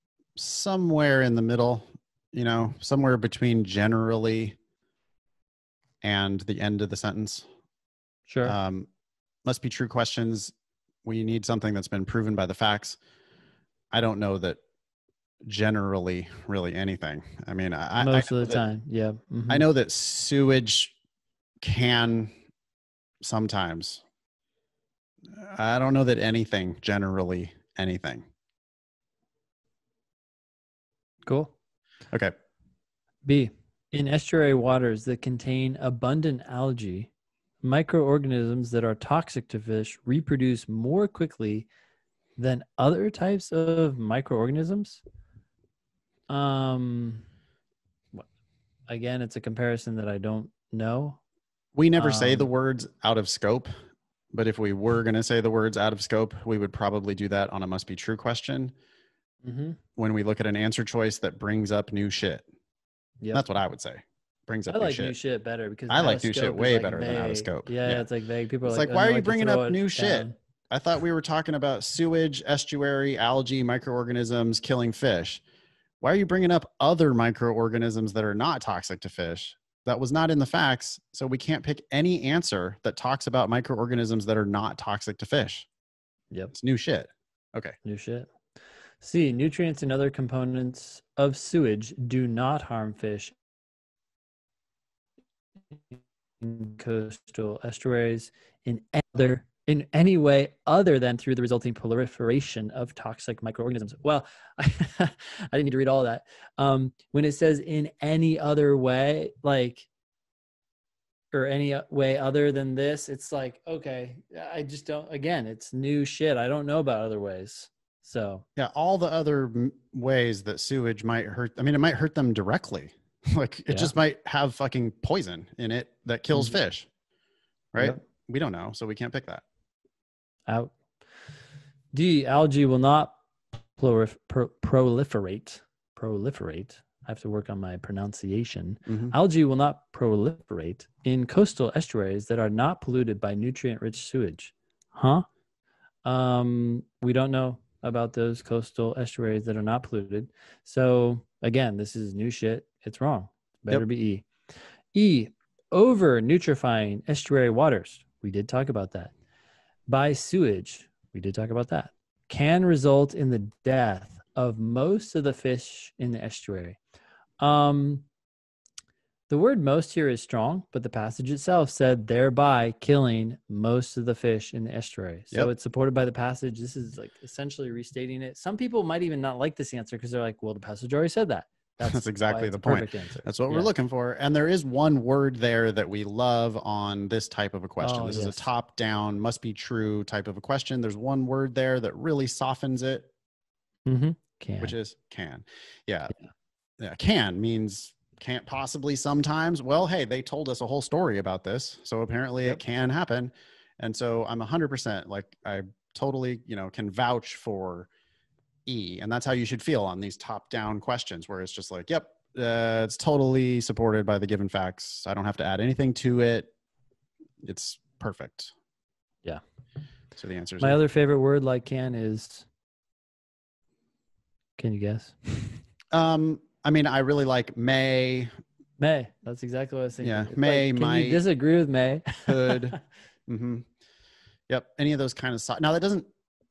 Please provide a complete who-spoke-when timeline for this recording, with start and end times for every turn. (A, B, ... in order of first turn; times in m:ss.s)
0:00.4-0:04.5 A
0:06.0-0:07.4 A
0:08.3-0:08.6 B
0:08.4-0:08.9 A
0:09.4-0:10.5 A
0:11.0-0:13.0 A
0:13.9-0:14.6 A
0:15.4-0:18.6 A
0:18.0-0:19.6 B
0:19.5-0:20.9 A
0:21.6-0:22.3 A
0:23.2-0:24.0 A
0:25.3-0:28.2 A
0:31.2-0:31.5 B
0:33.2-0:37.1 B
0:37.6-0:41.7 B
0:42.4-0:45.0 B
0:46.3-0:47.2 B
0:48.9-0:51.2 B
0:51.7-0:53.7 A
0:52.0-0:52.5 B
0:54.3-0:58.7 A
0:59.4-0:59.8 B
1:00.0-1:02.4 A
1:03.3-1:05.1 A
1:04.7-1:10.3 B
1:05.9-1:08.0 A
1:08.6-1:15.4 A
1:16.0-1:25.7 A
1:26.5-1:27.8 A
1:27.8-1:28.3 B
1:29.0-1:33.3 B
1:35.9-1:49.9 B
1:51.3-1:58.4 B
1:58.6-2:06.9 A
2:03.7-2:03.9 B
2:07.7-2:09.4 A
2:10.5-2:10.8 B
2:11.9-2:13.2 B
2:13.8-2:25.2 B
2:18.8-2:19.1 A
2:26.0-2:34.3 B
2:34.9-2:39.1 B
2:39.9-2:46.8 B
2:47.4-2:48.0 B
2:49.3-3:03.7 B
3:01.8-3:13.1 A
3:07.8-3:08.5 B
3:13.8-3:14.8 B
3:14.6-3:16.1 A
3:16.8-3:27.9 A
3:28.6-3:36.5 A
3:37.4-3:38.5 A
3:40.2-3:40.8 A
3:40.6-3:42.4 B
3:44.6-3:45.5 B
3:45.9-3:48.3 A
3:48.8-3:52.6 B
3:50.0-3:51.2 A
3:52.2-3:52.8 A
3:53.3-3:53.7 A
3:54.5-3:56.1 A